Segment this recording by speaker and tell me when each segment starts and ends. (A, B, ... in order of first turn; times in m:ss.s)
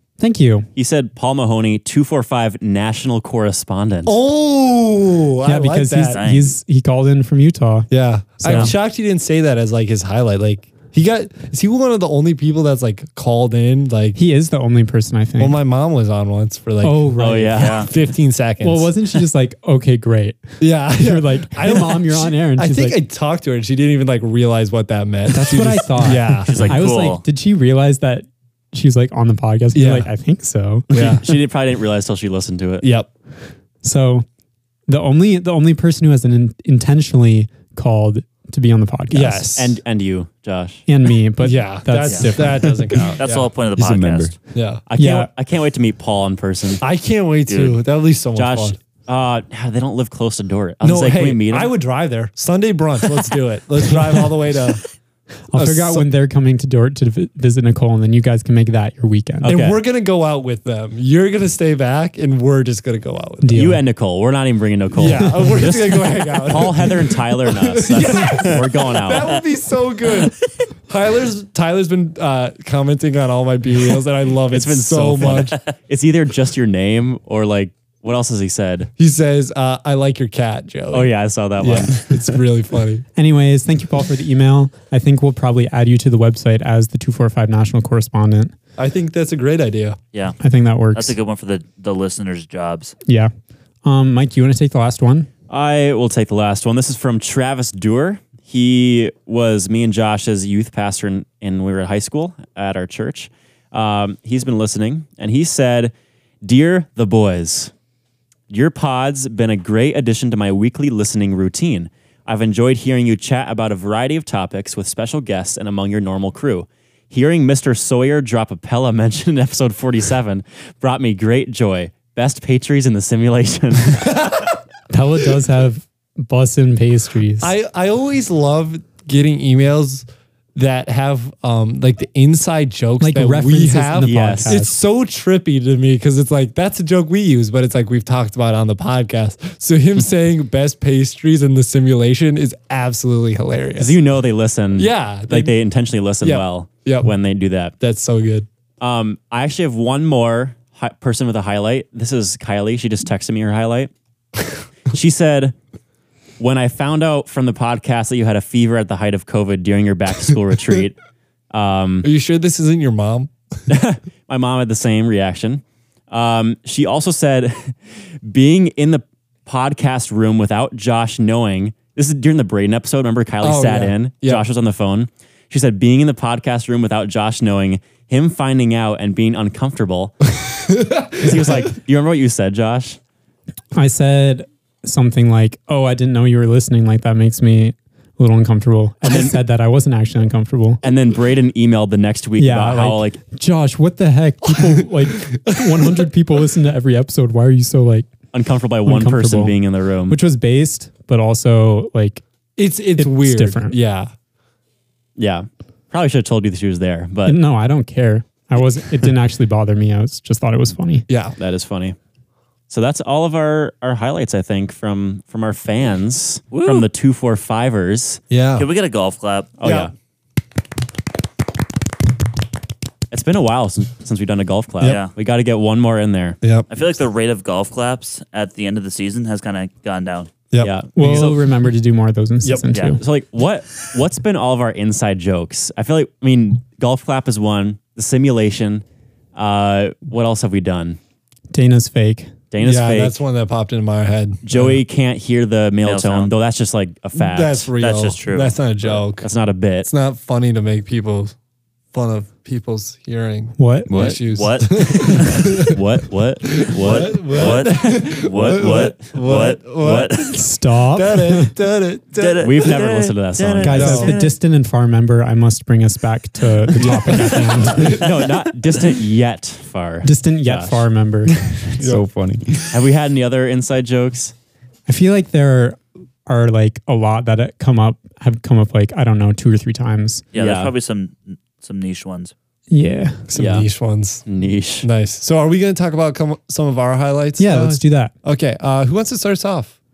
0:00.2-0:00.7 A
0:00.7-0:04.1 B
0:04.0-0:06.2 C
0:05.4-0:08.7 A
0:06.1-0:06.5 D
0:07.9-0:14.2 C
0:08.5-0:08.7 D
0:14.2-0:15.6 A
0:15.4-0:18.9 C
0:16.8-0:17.8 A
0:17.2-0:17.8 B
0:17.5-0:17.9 D
0:18.6-0:23.0 A
0:20.6-0:26.8 C
0:25.3-0:30.9 A
0:26.5-0:27.2 D
0:29.7-0:30.1 C
0:30.9-0:31.2 C
0:30.9-0:32.9 B
0:32.8-0:33.1 C
0:33.8-0:34.2 A
0:34.9-0:39.5 A
0:39.1-0:39.8 C
0:39.5-0:40.8 B
0:40.9-0:42.9 A
0:41.4-0:43.5 C
0:43.2-0:44.3 D
0:43.8-0:44.3 E
0:44.5-0:44.8 C
0:44.9-0:46.8 B
0:45.0-0:45.3 A
0:46.8-0:48.8 C
0:47.5-0:47.8 D
0:48.3-0:51.7 B
0:50.8-0:54.8 C
0:55.5-0:59.6 A
0:55.5-0:56.0 C
0:59.4-0:59.8 B
0:59.4-1:03.5 C
1:03.4-1:03.8 A
1:03.5-1:09.4 B
1:04.9-1:15.7 C
1:14.5-1:18.9 B
1:19.0-1:23.0 C
1:20.9-1:22.4 B
1:23.2-1:28.5 A
1:28.8-1:30.0 C
1:30.1-1:30.4 D
1:30.4-1:31.2 A
1:30.9-1:32.9 D
1:33.0-1:33.3 A
1:33.8-1:35.3 A
1:35.5-1:47.7 B
1:48.5-2:04.2 B
2:04.9-2:07.5 A
2:07.4-2:24.0 C
2:13.0-2:14.8 A
2:14.0-2:14.6 B
2:23.8-2:27.7 B
2:24.8-2:25.6 C
2:26.2-2:27.1 C
2:27.8-2:28.5 C
2:28.8-2:33.9 B
2:34.9-2:35.5 B
2:36.4-2:41.0 B
2:41.5-2:42.1 B
2:42.0-2:43.3 C
2:43.7-3:00.1 B
2:53.4-2:54.4 C
3:00.5-3:01.6 C
3:01.2-3:03.0 B
3:03.7-3:10.8 A
3:09.0-3:09.4 B
3:10.8-3:13.2 B
3:12.4-3:18.1 A
3:18.3-3:20.2 B
3:18.8-3:22.2 A
3:22.6-3:24.1 C
3:23.0-3:23.8 A
3:25.2-3:27.4 B
3:27.2-3:31.1 A
3:31.1-3:31.4 C
3:31.4-3:32.0 B
3:32.7-3:38.2 B
3:36.5-3:36.9 D
3:38.3-3:38.6 C
3:38.6-3:39.5 D
3:39.6-3:39.9 B
3:39.6-3:39.9 C
3:43.1-3:46.4 B
3:44.8-3:45.1 D
3:46.7-3:50.3 D
3:50.6-3:51.4 B
3:50.9-3:53.0 A
3:52.7-3:53.0 D
3:53.0-3:58.8 B
3:59.3-4:01.0 B
4:01.5-4:02.3 A
4:02.5-4:03.2 B
4:02.6-4:04.8 C
4:04.4-4:07.7 B
4:05.8-4:06.3 D
4:07.2-4:11.3 C
4:07.8-4:08.5 D
4:08.8-4:09.9 B
4:11.9-4:15.8 C
4:13.6-4:13.9 A
4:13.9-4:14.2 E
4:14.3-4:15.5 D
4:15.0-4:20.1 B
4:16.5-4:20.4 C
4:16.6-4:20.4 D
4:20.3-4:21.5 A
4:20.9-4:22.8 C
4:22.2-4:24.3 D
4:22.4-4:24.1 B
4:23.6-4:24.2 C
4:23.6-4:28.0 A
4:26.8-4:28.1 C
4:27.8-4:30.8 B
4:30.0-4:31.4 A
4:31.8-4:32.0 C
4:31.8-4:32.8 E
4:32.7-4:34.3 B
4:34.9-4:40.2 A
4:40.3-4:42.3 D
4:40.3-4:40.7 B
4:42.7-4:43.3 A
4:43.3-4:44.2 C
4:43.3-4:43.7 B
4:44.2-4:44.9 B
4:44.8-4:49.7 C
4:47.4-4:48.1 A